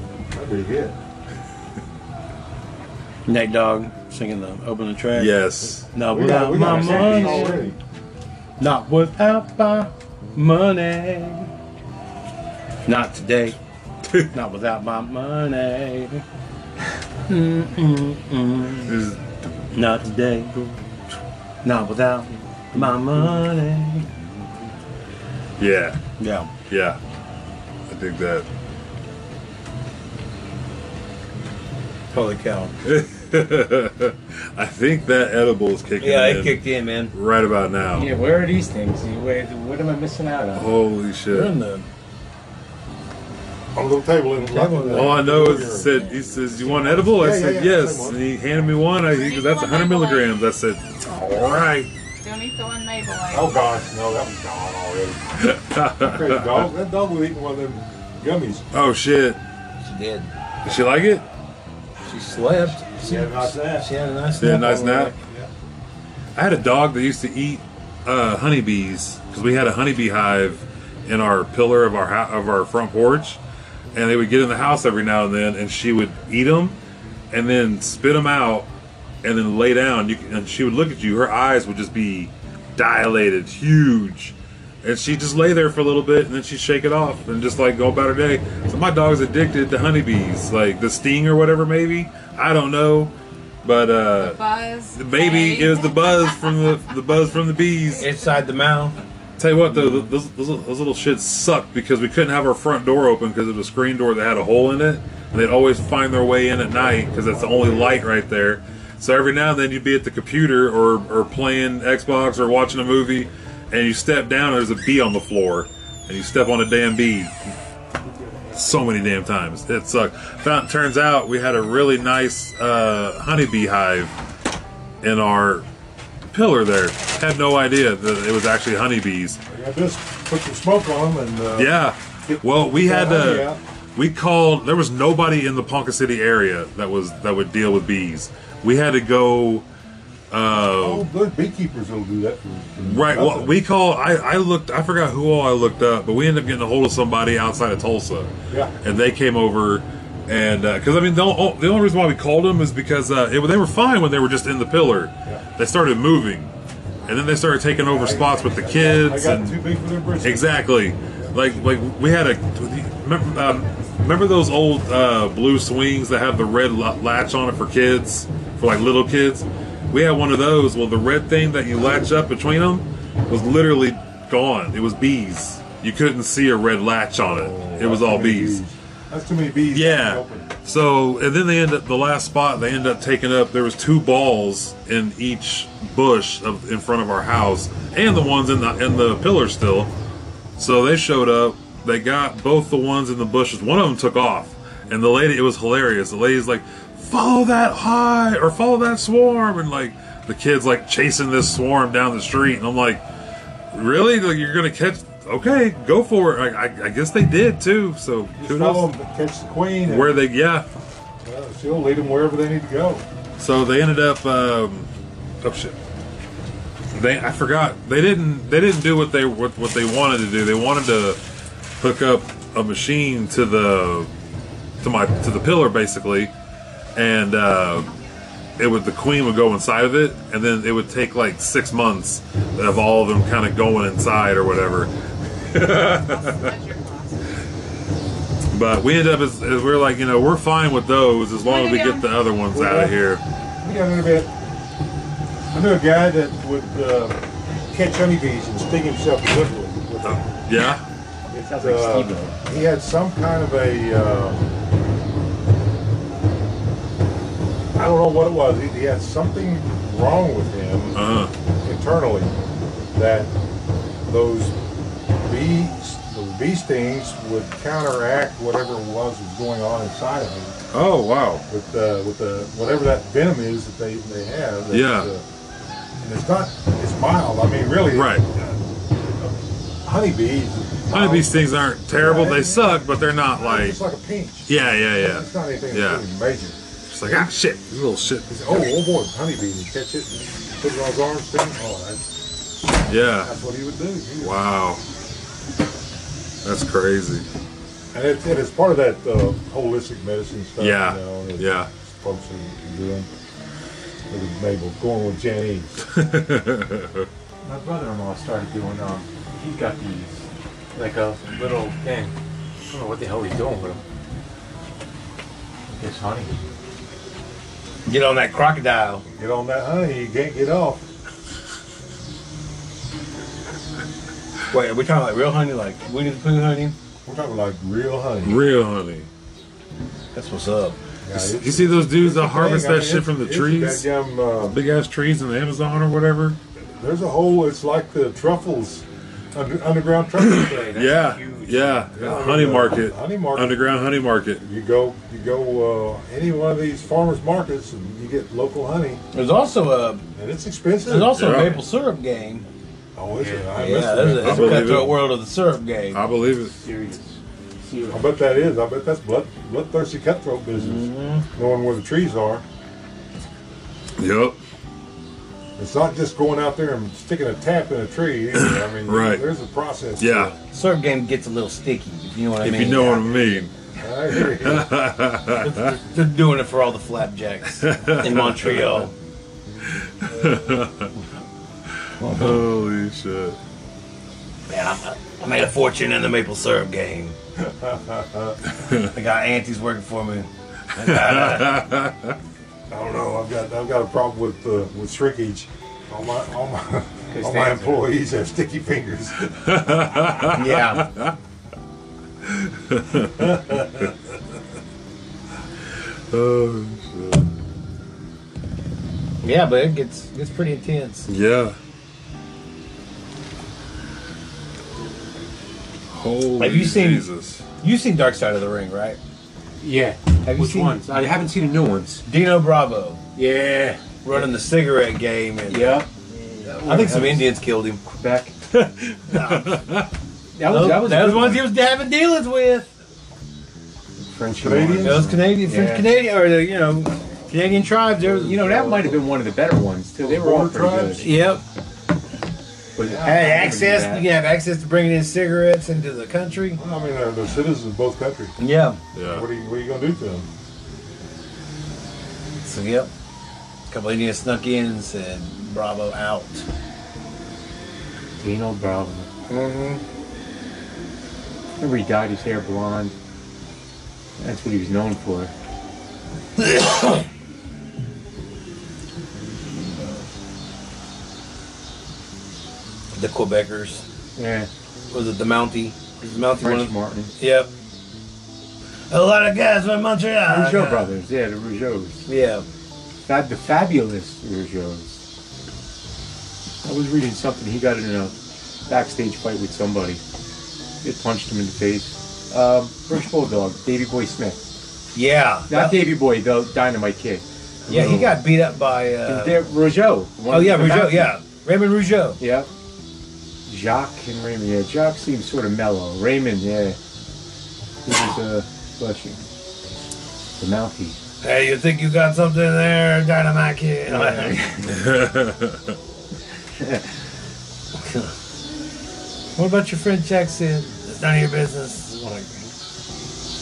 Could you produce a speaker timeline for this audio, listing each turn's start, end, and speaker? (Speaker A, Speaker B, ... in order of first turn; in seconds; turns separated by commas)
Speaker A: 0.3-1.0, Speaker B: 3.3-5.4, Speaker C: 5.1-5.9, Speaker B: 5.9-7.7, Speaker A: 6.0-7.8, Speaker C: 7.0-7.2, Speaker B: 8.6-11.5, Speaker B: 12.8-13.6, Speaker B: 14.3-16.2, Speaker B: 17.3-18.9, Speaker C: 18.9-19.7, Speaker B: 19.7-20.6, Speaker B: 21.6-24.1, Speaker C: 25.6-26.0, Speaker B: 26.2-26.5, Speaker C: 26.7-27.0, Speaker C: 27.9-28.5, Speaker B: 32.1-32.7, Speaker C: 32.8-38.1, Speaker B: 36.0-37.1, Speaker D: 37.9-40.7, Speaker C: 40.5-41.5, Speaker B: 41.3-41.9, Speaker A: 43.7-48.2, Speaker B: 44.4-45.2, Speaker C: 44.9-51.9, Speaker E: 49.0-50.3, Speaker E: 52.2-53.6, Speaker A: 53.3-55.4, Speaker C: 55.4-56.7, Speaker A: 56.0-58.6, Speaker C: 58.7-59.4, Speaker B: 59.8-60.3, Speaker C: 60.6-61.2, Speaker B: 62.1-65.1, Speaker A: 62.7-63.9, Speaker C: 64.4-65.1, Speaker A: 65.2-65.5, Speaker C: 66.3-73.4, Speaker C: 73.9-76.8, Speaker C: 77.3-78.7, Speaker C: 79.2-94.4, Speaker E: 94.2-96.8, Speaker C: 94.9-98.1, Speaker B: 98.0-99.0, Speaker C: 99.4-117.5, Speaker A: 106.7-108.1, Speaker C: 118.5-124.1, Speaker C: 125.0-125.7, Speaker C: 126.3-129.4, Speaker A: 129.5-133.6, Speaker C: 131.6-139.7, Speaker C: 140.3-141.1, Speaker A: 140.6-143.6, Speaker C: 142.8-156.5, Speaker A: 148.5-148.7, Speaker C: 157.1-159.6, Speaker A: 157.8-160.6, Speaker C: 160.2-178.6, Speaker A: 161.2-161.7, Speaker A: 177.2-180.5, Speaker C: 179.7-189.9, Speaker C: 190.6-203.0, Speaker C: 203.7-208.9, Speaker A: 208.4-210.2, Speaker C: 209.8-210.7, Speaker A: 211.2-213.0, Speaker C: 213.4-214.9, Speaker C: 215.4-215.8, Speaker C: 216.9-221.2, Speaker C: 221.8-224.1, Speaker C: 224.8-226.3, Speaker C: 226.9-227.9, Speaker C: 228.6-234.9, Speaker C: 235.5-236.5, Speaker E: 235.5-237.3, Speaker C: 238.5-243.2, Speaker E: 241.4-242.1, Speaker A: 242.5-243.0, Speaker A: 243.6-244.3, Speaker A: 245.5-247.2, Speaker A: 247.7-250.2, Speaker C: 250.0-250.8, Speaker A: 251.3-254.5, Speaker D: 251.3-252.4, Speaker A: 257.8-261.0, Speaker C: 260.9-261.3, Speaker A: 261.6-262.3, Speaker A: 262.9-263.3, Speaker A: 264.1-264.6, Speaker A: 265.2-270.6, Speaker C: 270.7-271.4, Speaker A: 271.5-275.2, Speaker C: 274.7-275.1, Speaker A: 276.0-287.3, Speaker C: 277.9-278.2, Speaker C: 280.9-283.8, Speaker C: 284.5-286.0, Speaker C: 286.9-288.6, Speaker A: 288.3-292.1, Speaker C: 292.9-293.3, Speaker A: 293.2-294.3, Speaker C: 294.2-294.8, Speaker C: 296.4-297.2, Speaker A: 297.9-303.1, Speaker C: 300.6-301.7, Speaker A: 304.1-305.8, Speaker C: 305.9-307.1, Speaker D: 307.4-312.1, Speaker D: 312.7-313.8, Speaker D: 315.7-316.4, Speaker B: 317.9-319.0, Speaker A: 319.1-320.8, Speaker B: 324.5-326.7, Speaker A: 327.1-328.4, Speaker C: 328.2-329.1, Speaker B: 330.1-330.8, Speaker A: 331.0-334.6, Speaker C: 331.1-333.9, Speaker C: 334.5-336.4, Speaker A: 336.8-341.0, Speaker C: 340.2-344.4, Speaker D: 340.4-341.9, Speaker A: 341.9-343.6, Speaker A: 344.4-349.0, Speaker B: 349.1-350.0, Speaker A: 350.1-351.3, Speaker B: 350.9-352.4, Speaker C: 351.1-351.6, Speaker A: 352.9-354.9, Speaker D: 353.2-353.6, Speaker B: 353.6-356.0, Speaker C: 354.1-355.1, Speaker C: 355.9-356.5, Speaker D: 356.5-358.1, Speaker A: 357.9-362.4, Speaker B: 360.5-361.2, Speaker C: 364.0-364.4, Speaker A: 365.6-370.4, Speaker C: 368.3-369.3, Speaker C: 370.0-370.3, Speaker B: 370.5-373.4, Speaker C: 372.4-373.5, Speaker A: 373.8-374.7, Speaker C: 374.1-375.8, Speaker B: 375.4-378.9, Speaker C: 377.6-378.8, Speaker C: 379.7-380.9, Speaker C: 382.0-383.4, Speaker B: 384.5-387.1, Speaker A: 387.4-388.4, Speaker B: 388.9-391.6, Speaker C: 390.8-392.1, Speaker A: 392.7-400.1, Speaker D: 397.1-397.8, Speaker C: 399.4-401.1, Speaker D: 400.3-400.8, Speaker C: 402.2-403.8, Speaker A: 403.2-403.9, Speaker C: 406.1-407.3, Speaker B: 409.2-411.1, Speaker C: 411.1-411.6, Speaker C: 415.9-417.4, Speaker B: 416.4-417.1, Speaker B: 417.6-419.0, Speaker D: 419.6-422.0, Speaker B: 420.2-420.8, Speaker B: 422.1-423.0, Speaker D: 423.1-424.2, Speaker B: 424.0-425.8, Speaker D: 425.4-425.9, Speaker D: 426.5-427.3, Speaker B: 426.6-427.8, Speaker D: 427.8-428.3, Speaker C: 428.5-429.9, Speaker B: 429.1-429.6, Speaker D: 430.4-431.5, Speaker B: 430.4-432.7, Speaker D: 434.1-435.9, Speaker A: 434.4-435.1, Speaker B: 434.8-439.0, Speaker D: 438.0-441.1, Speaker A: 440.0-441.2, Speaker B: 441.0-441.4, Speaker D: 442.8-444.1, Speaker A: 442.8-443.2, Speaker B: 443.0-446.6, Speaker A: 446.6-448.3, Speaker B: 448.4-448.8, Speaker C: 448.9-449.2, Speaker A: 449.1-450.3, Speaker B: 452.4-452.9, Speaker B: 453.7-456.5, Speaker D: 458.2-459.1, Speaker B: 459.3-459.8, Speaker D: 461.6-462.9, Speaker D: 464.2-465.3, Speaker B: 466.4-467.0, Speaker B: 472.9-473.8, Speaker D: 474.1-474.5, Speaker B: 474.9-477.5, Speaker D: 476.2-477.1, Speaker B: 478.9-480.9, Speaker D: 480.2-482.0, Speaker B: 482.1-482.4, Speaker D: 483.1-485.0, Speaker D: 486.6-488.1, Speaker D: 488.7-490.0, Speaker D: 490.8-494.4, Speaker B: 494.9-495.8, Speaker D: 495.5-498.2, Speaker B: 497.7-499.5, Speaker D: 499.0-501.1, Speaker B: 500.3-502.2, Speaker D: 502.2-502.5, Speaker D: 503.5-506.8, Speaker D: 507.8-509.2, Speaker D: 510.4-511.0, Speaker B: 511.2-514.7, Speaker D: 513.9-514.7, Speaker C: 514.7-515.8, Speaker B: 517.8-518.1, Speaker B: 519.4-522.5